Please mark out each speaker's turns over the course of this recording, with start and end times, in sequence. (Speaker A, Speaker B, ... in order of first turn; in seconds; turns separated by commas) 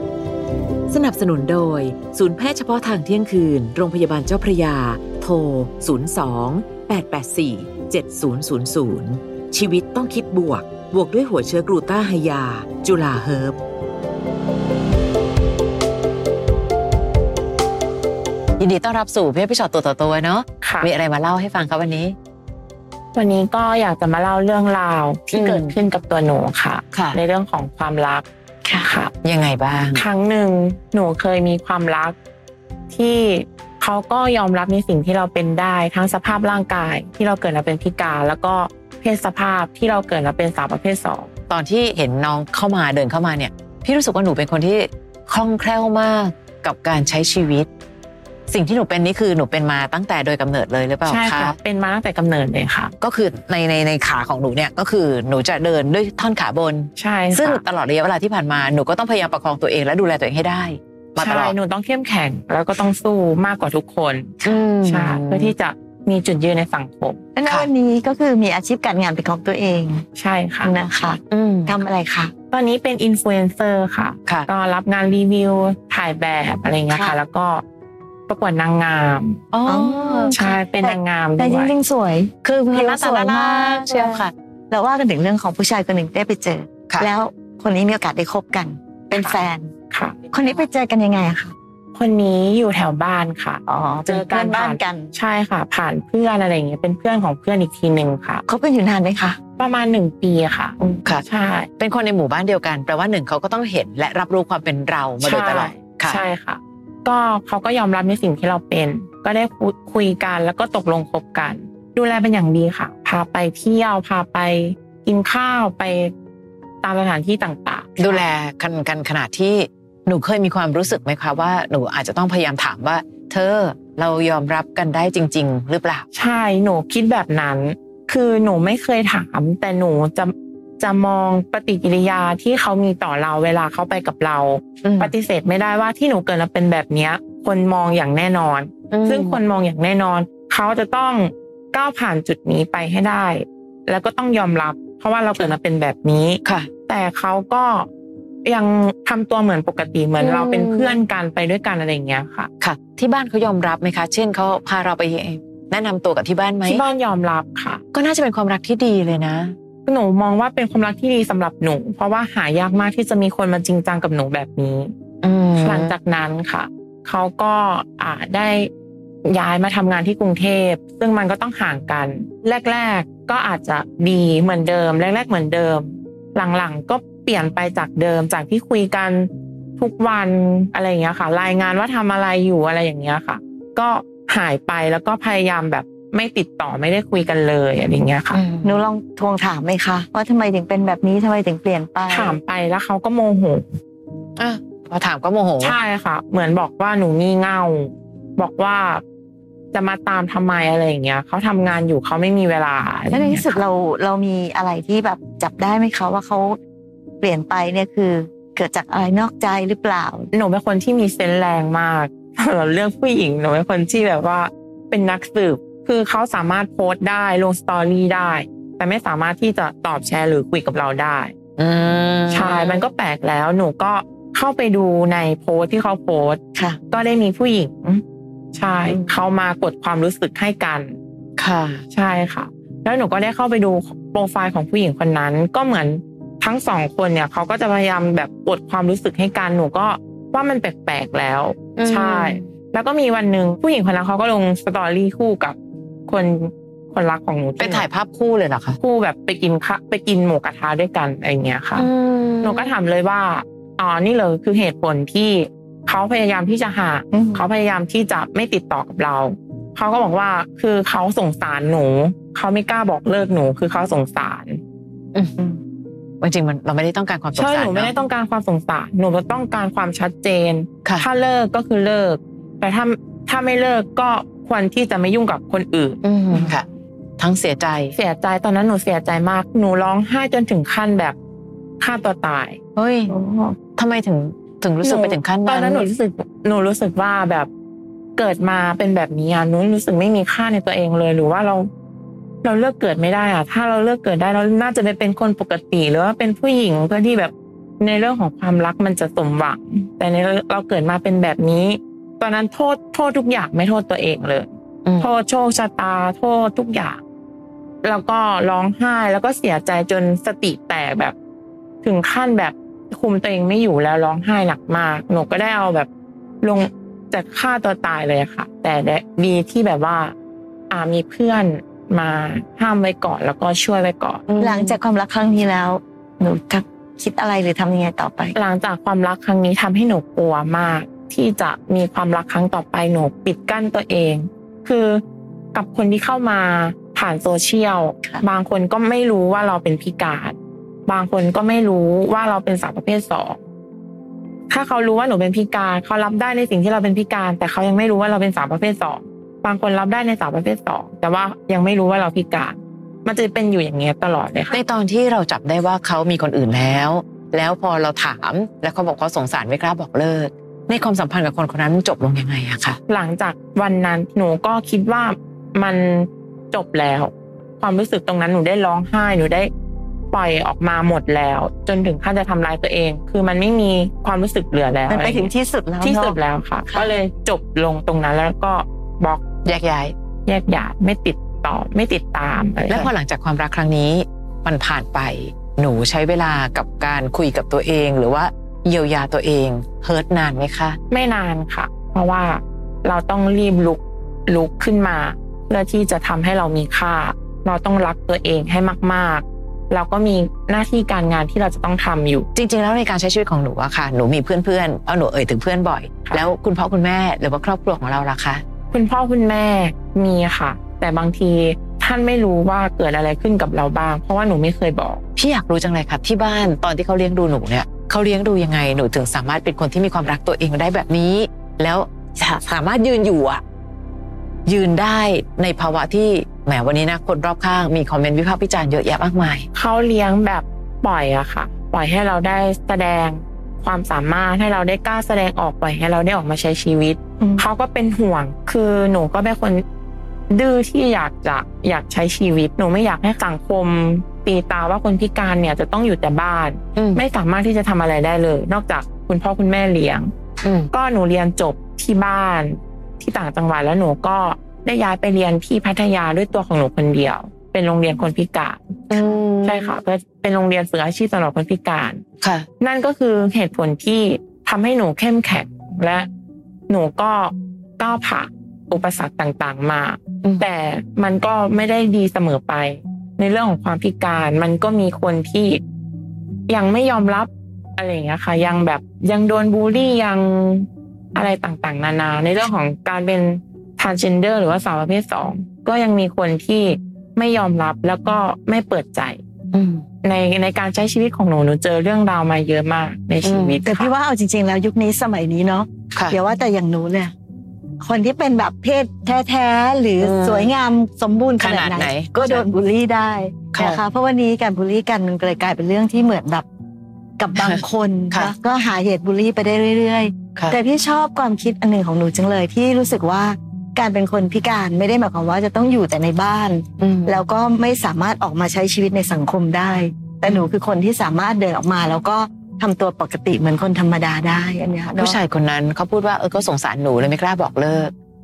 Speaker A: 0.9-13.6, Speaker A: 18.6-22.1, Speaker B: 20.6-20.9, Speaker B: 23.1-29.1, Speaker A: 25.3-25.7, Speaker A: 26.9-27.2, Speaker A: 29.2-30.1, Speaker B: 29.9-32.1, Speaker B: 32.9-41.3, Speaker A: 41.5-47.7, Speaker A: 48.5-51.5, Speaker B: 51.0-52.9, Speaker A: 53.0-61.5, Speaker B: 57.0-57.6, Speaker B: 61.2-67.2, Speaker A: 64.4-65.5, Speaker C: 67.3-70.0, Speaker B: 70.2-70.7, Speaker C: 70.6-72.3, Speaker A: 71.3-71.8, Speaker B: 72.5-77.6, Speaker B: 78.3-79.4, Speaker A: 79.5-80.3, Speaker C: 79.7-89.7, Speaker B: 80.3-81.7, Speaker A: 82.4-84.3, Speaker B: 89.9-90.4, Speaker C: 90.3-91.5, Speaker B: 91.9-98.4, Speaker C: 93.7-95.1, Speaker C: 98.5-99.4, Speaker B: 99.6-101.7, Speaker A: 101.8-106.2, Speaker B: 105.2-116.1, Speaker B: 116.8-118.2, Speaker A: 118.0-126.0, Speaker B: 126.1-147.9, Speaker A: 134.8-135.1, Speaker A: 138.9-139.4, Speaker B: 148.4-152.5, Speaker A: 150.2-151.0, Speaker A: 152.6-156.8, Speaker B: 156.6-157.8, Speaker A: 157.9-159.5, Speaker B: 159.8-164.9, Speaker A: 165.2-165.9, Speaker B: 165.6-168.7, Speaker B: 169.2-188.4, Speaker A: 188.3-188.8, Speaker C: 188.6-192.4, Speaker B: 192.1-193.7, Speaker A: 194.4-195.8, Speaker B: 195.6-199.0, Speaker B: 199.7-203.6, Speaker C: 203.1-206.6, Speaker C: 207.2-210.3, Speaker B: 210.3-221.3, Speaker A: 221.6-222.8, Speaker B: 222.3-228.0, Speaker B: 228.5-230.9, Speaker A: 231.4-231.8, Speaker B: 231.9-245.6, Speaker A: 241.8-242.4, Speaker B: 246.1-247.9, Speaker A: 247.6-248.8, Speaker B: 248.8-251.9, Speaker A: 251.8-252.8, Speaker B: 252.4-264.6, Speaker C: 257.1-257.4, Speaker A: 266.2-267.9, Speaker B: 267.3-276.5, Speaker A: 276.0-276.6, Speaker A: 277.2-277.9, Speaker B: 277.9-281.1, Speaker B: 281.8-282.6, Speaker A: 282.8-283.1, Speaker C: 283.2-283.5, Speaker A: 283.8-285.9, Speaker B: 284.8-287.5, Speaker B: 288.2-291.7, Speaker B: 292.4-307.0, Speaker A: 304.8-305.1, Speaker B: 307.8-311.1, Speaker B: 311.8-315.9, Speaker B: 316.4-320.1, Speaker B: 320.7-324.3, Speaker A: 324.3-324.7, Speaker C: 324.4-328.4, Speaker B: 328.3-335.0, Speaker B: 335.5-343.4, Speaker B: 344.5-354.6, Speaker A: 354.5-362.8, Speaker B: 362.9-369.5, Speaker B: 370.1-375.3, Speaker C: 374.9-376.2, Speaker B: 375.8-379.2, Speaker A: 379.4-379.9, Speaker B: 380.2-382.9, Speaker A: 382.7-390.8, Speaker B: 390.9-402.3, Speaker A: 402.3-408.4, Speaker B: 408.7-415.0, Speaker A: 415.1-423.4, Speaker A: 424.4-429.5, Speaker B: 429.5-439.6, Speaker C: 437.2-437.4, Speaker B: 440.3-450.1, Speaker A: 446.8-447.0, Speaker A: 450.4-450.7, Speaker B: 450.7-462.0, Speaker A: 458.9-459.8, Speaker A: 462.2-462.4, Speaker B: 462.6-466.1, Speaker B: 466.7-475.6, Speaker B: 476.5-489.2, Speaker A: 489.5-489.8, Speaker B: 490.0-493.9, Speaker A: 493.2-493.6, Speaker C: 493.6-497.1, Speaker C: 497.8-506.4, Speaker A: 500.0-500.5, Speaker A: 501.4-502.5, Speaker A: 503.5-503.8, Speaker C: 507.2-525.2, Speaker A: 507.4-508.3, Speaker A: 516.8-517.2, Speaker A: 525.0-527.9